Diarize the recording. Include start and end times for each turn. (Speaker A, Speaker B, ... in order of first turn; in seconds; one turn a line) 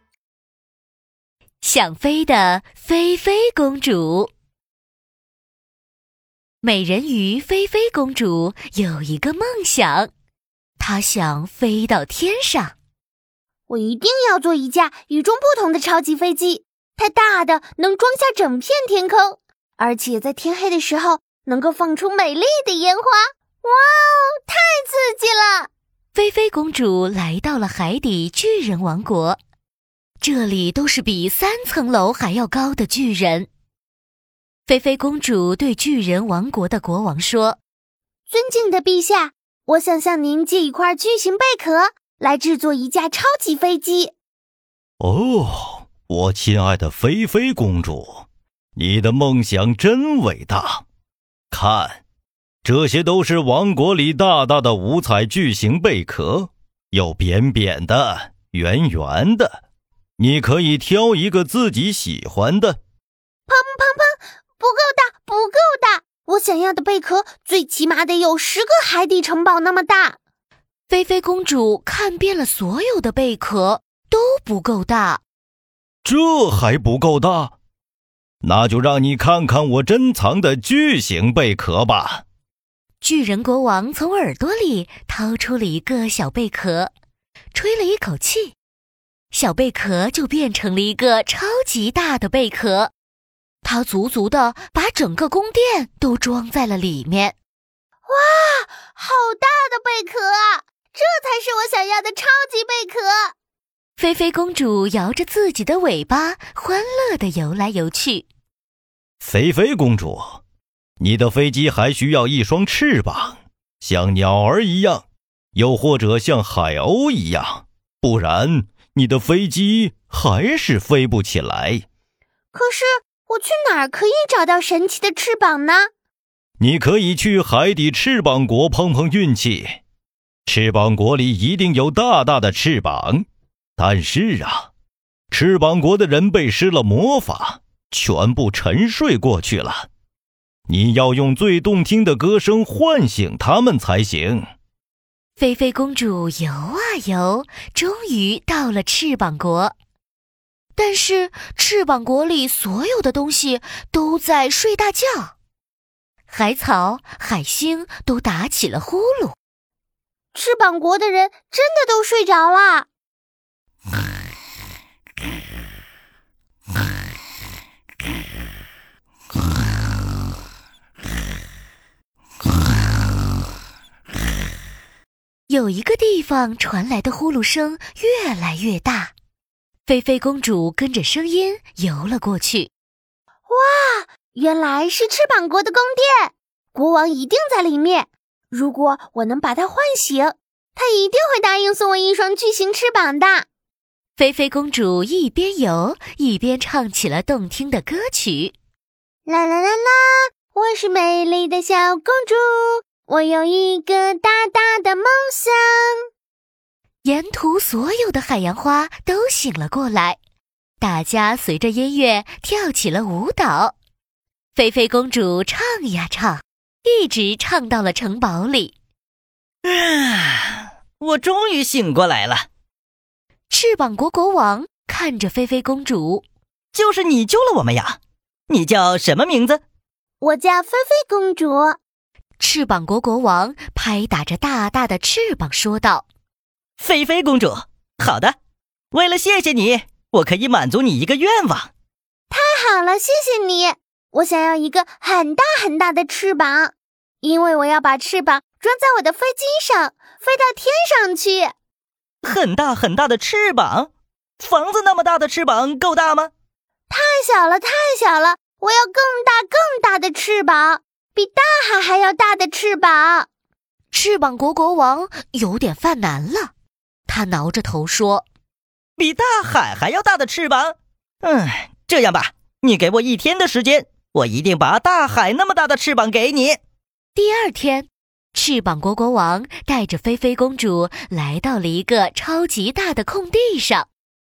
Speaker A: 1.6-4.3
Speaker A: 6.6-10.1
Speaker A: 10.8-12.7
Speaker B: 13.7-25.7
Speaker A: 26.1-29.4
Speaker A: 30.2-33.5
Speaker A: 34.7-37.6
Speaker B: 38.3-44.1
Speaker C: 45.0-48.2
Speaker C: 48.8-50.8
Speaker C: 51.5-52.0
Speaker C: 52.6-59.6
Speaker C: 60.2-62.8
Speaker B: 63.5-70.2
Speaker A: 70.9-75.2
Speaker C: 76.0-77.5
Speaker C: 78.4-82.2
Speaker A: 83.0-86.9
Speaker A: 87.5-88.5
Speaker A: 89.3-92.9
Speaker A: 93.6-97.3
Speaker B: 98.1-103.3
Speaker A: 104.0-108.2
Speaker C: 109.2-110.4
Speaker C: 111.0-121.8
Speaker B: 122.5-125.9
Speaker C: 126.6-129.8
Speaker C: 130.4-133.2
Speaker C: 133.8-134.7
Speaker C: 135.3-139.9
Speaker C: 140.7-144.5
Speaker A: 145.4-149.8
Speaker A: 150.8-155.3
Speaker A: 156.3-159.3
Speaker B: 160.3-162.9
Speaker A: 175.5-179.1
Speaker A: 179.8-182.7
Speaker B: 183.5-193.4
Speaker A: 194.2-198.5
Speaker B: 199.2-206.0
Speaker A: 207.0-210.2
Speaker A: 210.8-213.8
Speaker A: 214.5-218.7
Speaker D: 219.6-222.5
Speaker A: 223.5-226.2
Speaker D: 226.7-229.6
Speaker B: 230.2-231.8
Speaker A: 232.4-236.0
Speaker D: 236.8-238.3
Speaker D: 238.9-241.7
Speaker B: 242.3-251.5
Speaker D: 252.2-256.3
Speaker B: 256.9-263.3
Speaker A: 263.9-266.5
Speaker A: 267.1-268.2
Speaker D: 269.0-276.6
Speaker A: 277.1-283.9